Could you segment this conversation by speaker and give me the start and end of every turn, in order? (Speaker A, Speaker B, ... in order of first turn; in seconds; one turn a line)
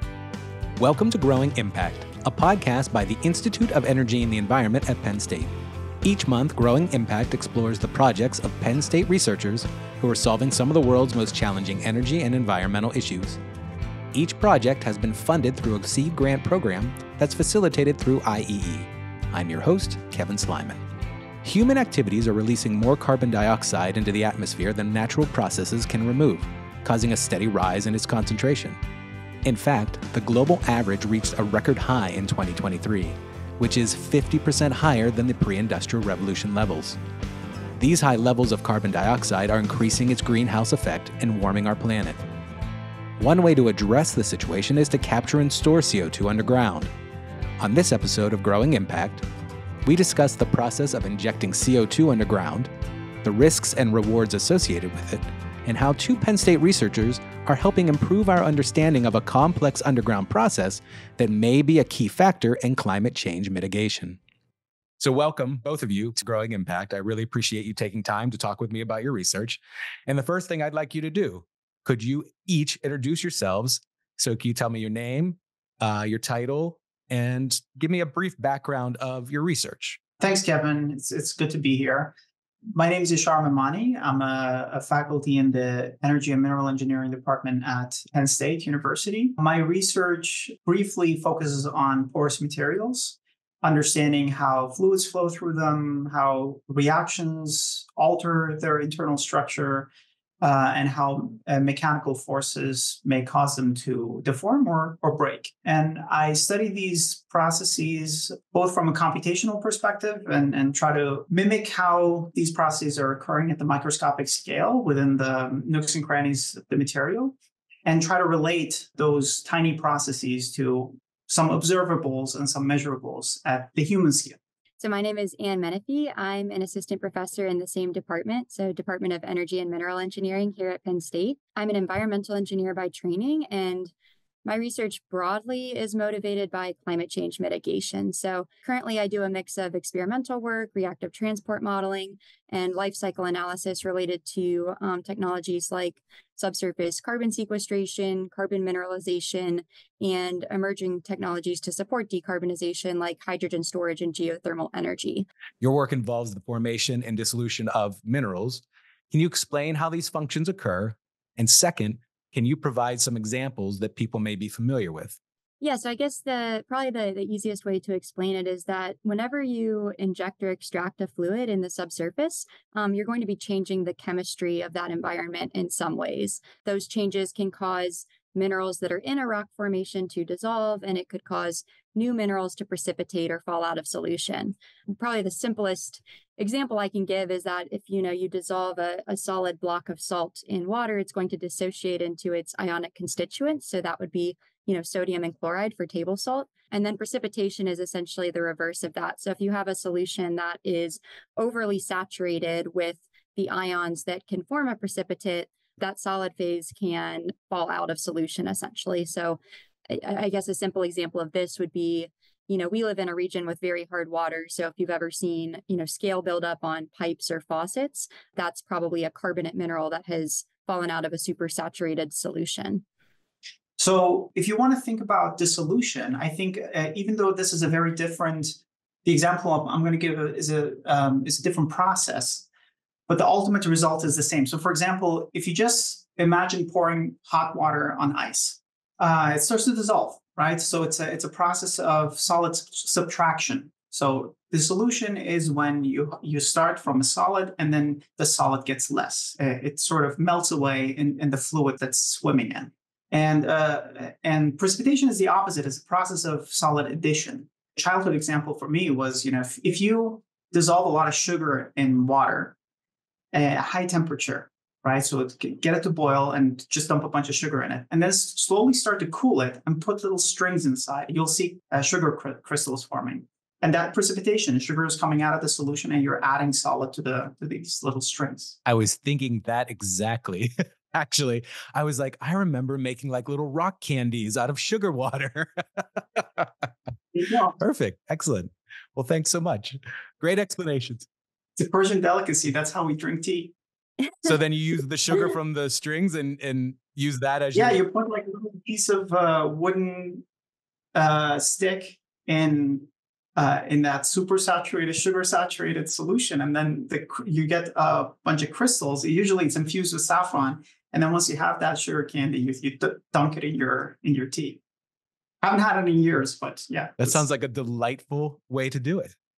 Speaker A: 0.8-5.5
Speaker A: 6.0-13.4
Speaker A: 14.1-20.8
Speaker A: 21.4-28.8
Speaker A: 29.4-37.0
Speaker A: 37.8-42.2
Speaker A: 43.2-46.9
Speaker A: 47.6-49.2
Speaker A: 49.9-52.7
Speaker A: 53.2-64.2
Speaker A: 65.0-80.0
Speaker B: 80.2-82.2
Speaker B: 82.7-99.9
Speaker B: 100.4-124.4
Speaker C: 124.8-133.9
Speaker C: 134.4-155.3
Speaker A: 155.6-165.2
Speaker C: 165.6-222.8
Speaker B: 223.8-232.4
Speaker B: 233.1-262.6
Speaker B: 263.3-278.6
Speaker A: 278.6-286.5
Speaker B: 287.1-287.6
Speaker A: 287.6-291.1
Speaker B: 291.6-293.5
Speaker A: 294.2-297.8
Speaker B: 297.6-300.2
Speaker B: 300.9-314.6
Speaker B: 315.4-317.2
Speaker A: 317.0-319.1